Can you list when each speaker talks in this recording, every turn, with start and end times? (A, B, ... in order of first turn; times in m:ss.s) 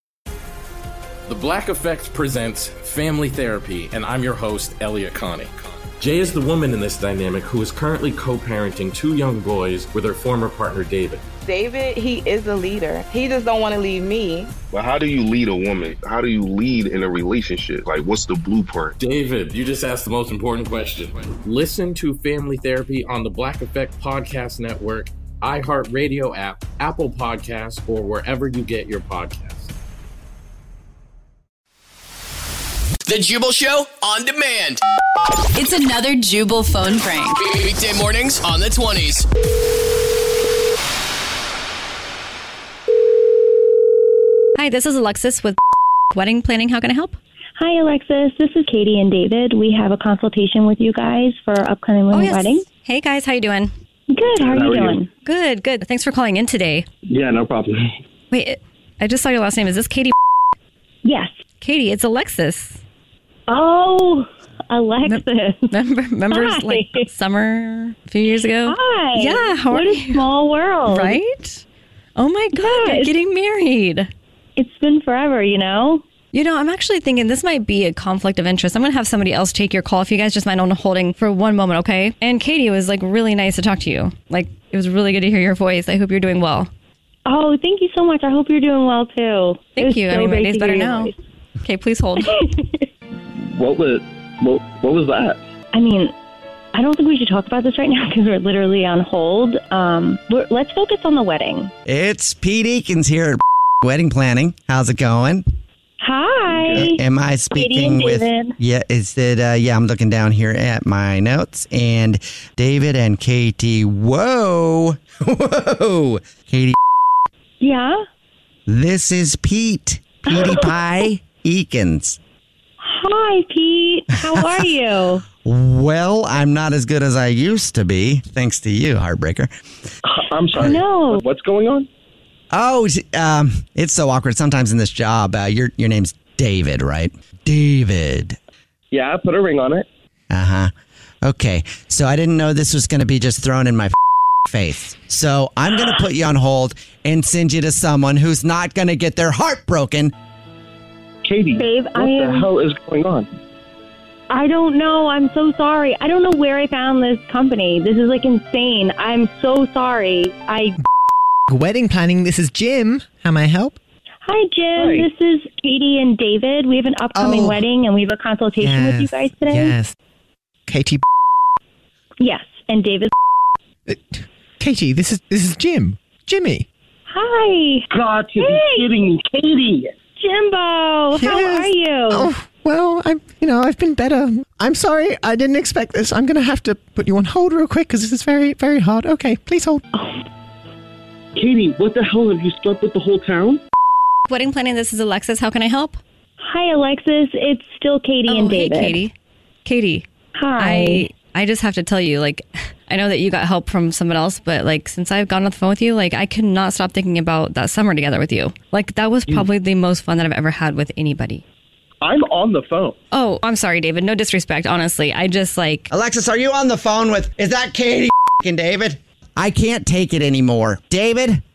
0:01.3-0:11.2 A
0:11.4-0:14.5 B
0:14.7-0:19.0 C
0:19.0-0:29.7 A
0:33.0-0:34.8 D
0:35.5-0:37.5 E
0:37.4-0:39.2 D
0:44.6-0:45.6 F
0:46.1-0:47.2 F
0:47.6-0:52.7 G
0:52.1-0:53.7 F
0:54.1-0:55.1 G
0:54.3-0:55.0 H
0:55.2-0:56.9 F
0:57.1-0:57.8 H
0:58.3-1:00.1 F
1:01.0-1:01.3 G
1:01.6-1:02.8 F
1:03.5-1:05.8 G
1:05.0-1:10.2 F
1:06.3-1:07.0 G
1:08.6-1:11.2 G
1:10.9-1:11.6 F
1:12.2-1:14.1 F
1:12.6-1:13.1 G
1:14.6-1:16.0 G
1:16.3-1:26.7 F
1:27.2-1:31.1 G
1:29.7-1:32.3 F
1:32.2-1:32.8 G
1:33.5-1:35.4 H
1:35.7-1:36.1 G
1:36.7-1:41.7 G
1:41.8-1:45.4 I
1:46.0-1:47.0 G
1:46.5-1:46.9 H
1:46.7-1:56.8 I
1:47.5-1:48.5 G
1:57.6-1:58.0 G
1:58.7-2:02.2 I
2:00.3-2:00.7 G
2:02.8-2:05.2 G
2:05.4-2:09.5 I
2:10.0-2:11.9 H
2:10.5-2:11.2 G
2:12.5-2:18.4 I
2:18.9-2:19.8 H
2:20.3-2:20.7 I
2:21.2-2:23.9 I
2:24.5-2:30.1 I
2:31.2-2:33.3 H
2:31.6-2:32.5 G
2:34.3-2:40.8 G
2:41.5-2:43.8 J
2:44.2-2:49.8 G
2:44.8-2:45.1 H
2:47.1-2:47.6 J
2:48.6-2:49.9 J
2:50.6-2:51.0 J
2:52.2-2:53.1 G
2:53.9-2:56.7 J
2:57.1-2:57.8 G
2:57.9-2:59.9 H
2:58.4-2:58.9 G
3:00.2-3:02.3 G
3:01.1-3:09.8 J
3:09.9-3:10.2 G
3:11.4-3:13.6 H
3:14.3-3:16.0 F
3:16.4-3:19.0 G
3:18.2-3:19.1 F
3:19.6-3:20.0 F
3:20.3-3:21.1 G
3:20.6-3:31.4 F
3:32.0-3:33.0 H
3:33.1-3:35.9 F
3:35.9-3:41.4 I